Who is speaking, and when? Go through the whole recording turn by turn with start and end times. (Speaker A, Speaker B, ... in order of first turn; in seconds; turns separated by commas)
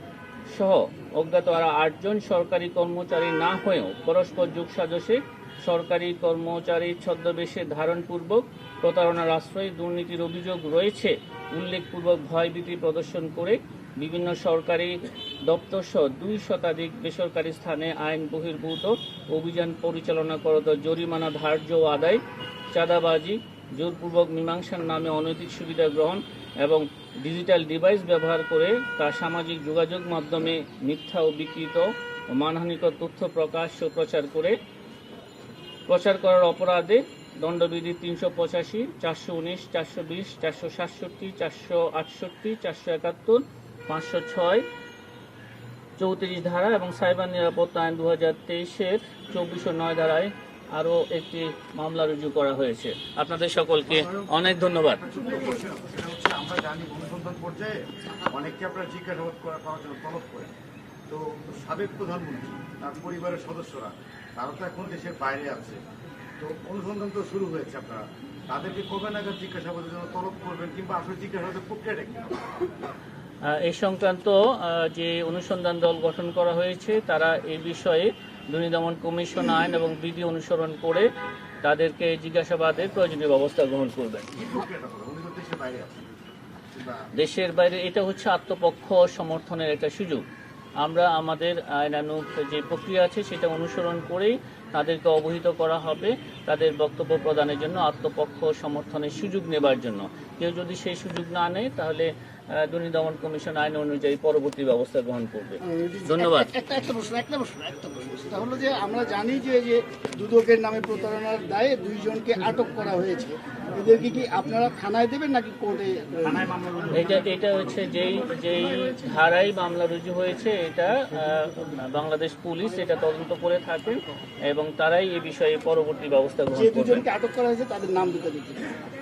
Speaker A: 0.5-34.6, Speaker A: 35.9-44.6, Speaker A: 46.0-55.0, Speaker B: 53.9-60.5, Speaker B: 61.1-65.8, Speaker B: 66.4-72.5, Speaker A: 73.4-81.1, Speaker A: 81.6-84.3, Speaker B: 84.3-86.1, Speaker B: 86.7-87.1, Speaker A: 87.2-90.2, Speaker A: 90.8-106.5, Speaker C: 105.6-116.8, Speaker A: 116.9-127.0, Speaker C: 126.5-128.7